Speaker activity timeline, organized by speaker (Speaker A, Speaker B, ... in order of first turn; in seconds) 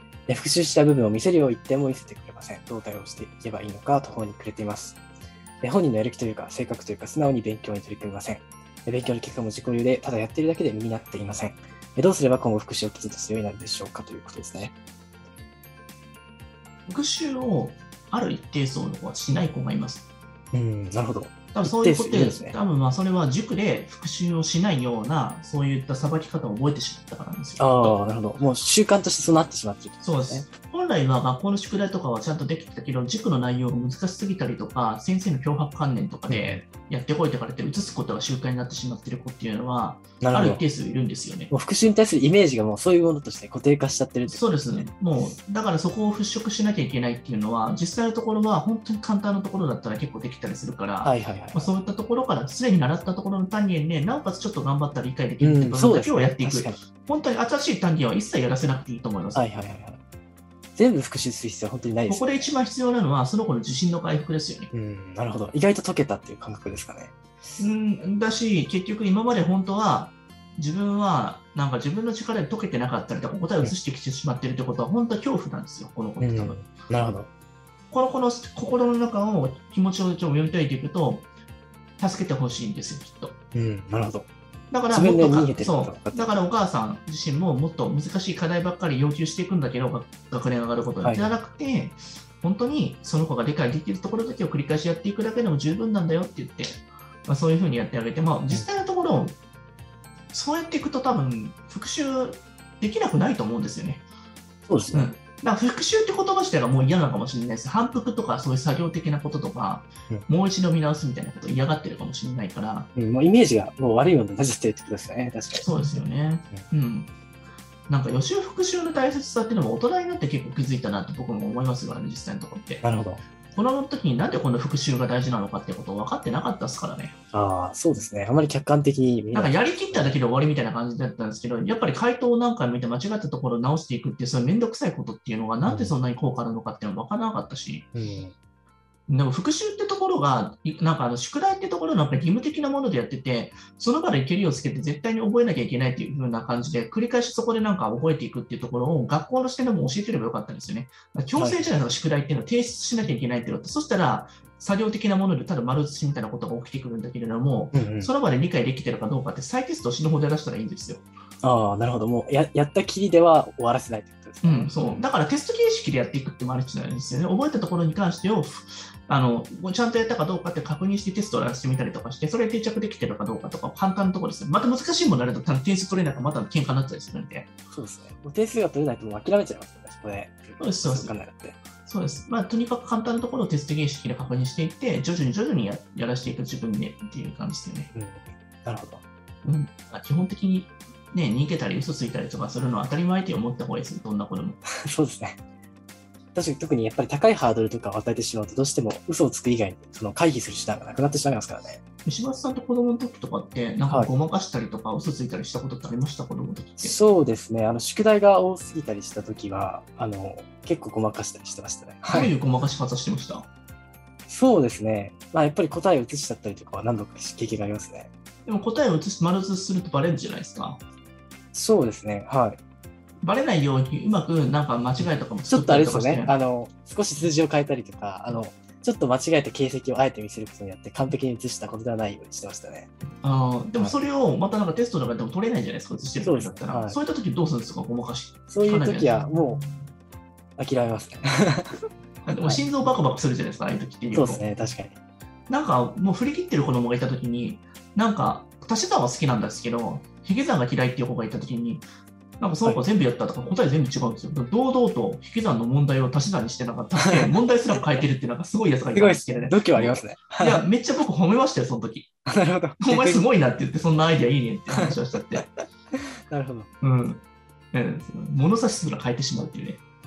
Speaker A: 0.3-5.0, 5.6-14.7, 20.5-22.6, 27.6-30.5, 36.3-36.6, 40.2-40.6, 41.5-44.9, 51.0-51.7, 55.4-56.8, 59.3-60.0, 60.8-62.5, 64.7-67.1, 76.2-77.3, 83.5-84.3, 84.9-86.3, 91.0-91.4, 104.7-105.1, 113.0-116.0, 122.8-123.2, 127.3-130.2, 135.7-135.9, 137.9-138.3, 151.3-151.7, 157.7-158.1, 161.4-165.0, 177.7-181.6, 187.9-189.0, 194.9-195.4, 196.3-201.8, 206.8-212.3, 214.3-218.1, 221.5-222.6, 225.0-232.9, 236.2-237.0, 238.5-239.7, 240.6-241.8, 242.4-242.8, 244.1-245.0, 257.0-257.2, 258.9-260.6, 262.2-263.3, 265.9-266.7
Speaker B: 16.9-20.1, 21.5-27.9, 30.0-41.5, 44.3-59.5, 62.1-64.7, 67.6-76.7, 77.9-81.3, 82.0-83.3, 84.7-99.4, 100.3-104.0, 104.9-112.9, 115.6-117.1, 117.9-122.8, 123.5-127.1, 129.3-137.9, 139.1-161.1, 164.4-177.5, 180.6-181.1, 181.9-187.9, 189.4-194.6, 202.0-207.0, 212.1-213.5, 218.4-220.8, 223.2-226.3, 233.2-239.3, 242.2-244.4, 245.5-251.9, 252.4-262.1, 262.8-265.4, 266.8-267.2, 267.7-269.8